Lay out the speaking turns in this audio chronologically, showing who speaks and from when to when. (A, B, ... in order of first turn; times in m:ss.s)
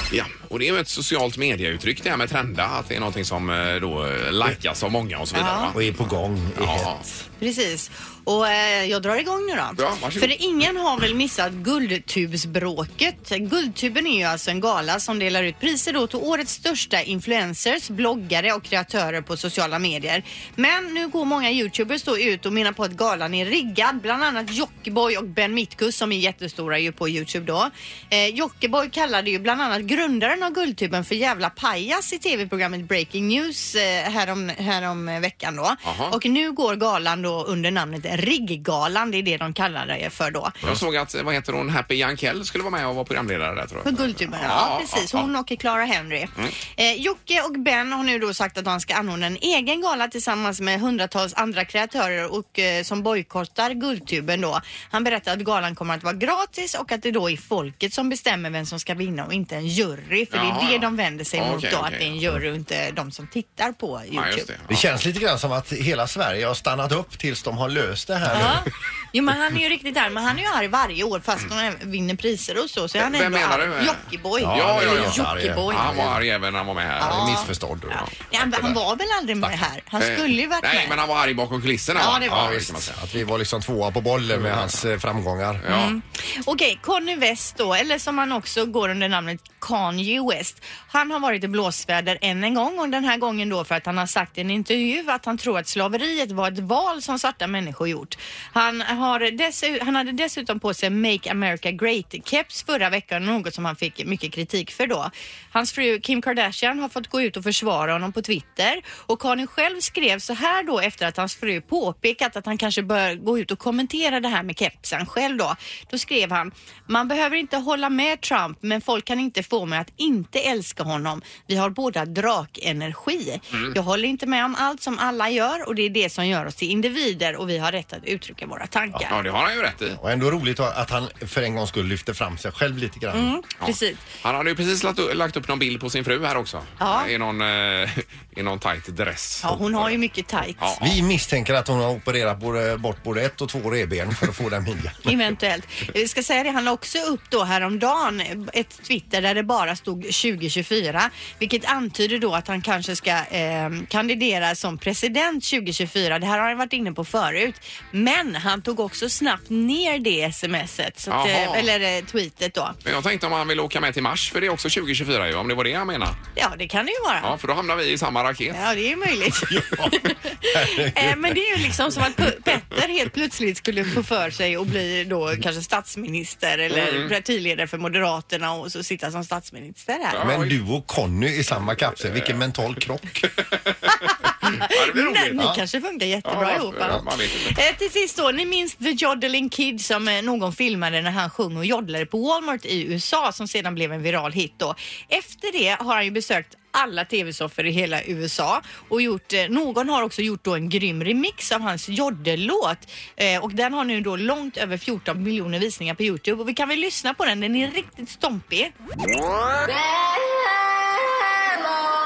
0:00.1-0:07.0 A
0:05.4-0:05.7 B
0:05.7-0:07.2 C
0:07.4-0:40.6 B
0:09.8-0:10.3 A
0:35.8-0:36.2 A
0:40.6-0:45.3 A
0:43.8-1:04.5 B
1:00.3-1:02.3 A
1:04.1-1:04.9 A
1:04.7-1:08.7 C
1:08.3-1:16.1 B
1:13.0-1:18.8 A
1:14.4-1:16.2 C
1:17.0-1:18.0 C
1:17.0-1:21.0 B
1:20.0-1:23.0 A
1:22.0-1:22.7 B
1:22.1-1:25.6 C
1:24.3-1:24.8 A
1:25.6-1:26.0 A
1:25.7-2:09.2 B
2:09.1-2:10.0 A
2:10.0-2:13.4 C
2:13.1-2:14.1 B
2:13.6-2:20.0 A
2:16.8-2:17.1 B
2:19.4-2:20.7 B
2:20.6-2:21.0 A
2:20.8-2:25.1 C
2:25.0-2:42.8 B
2:41.1-2:41.7 A
2:42.8-2:46.2 A
2:46.4-2:47.4 B
2:47.2-2:48.7 A
2:48.5-3:00.2 B
2:49.5-2:51.7 C
2:56.7-2:57.1 A
3:00.1-3:00.6 A
3:00.2-3:03.3 C
3:02.1-3:02.4 A
3:03.4-3:03.7 A
3:03.9-3:28.7 B
3:04.4-3:05.5 A
3:05.4-3:05.6 C
3:06.2-3:07.6 A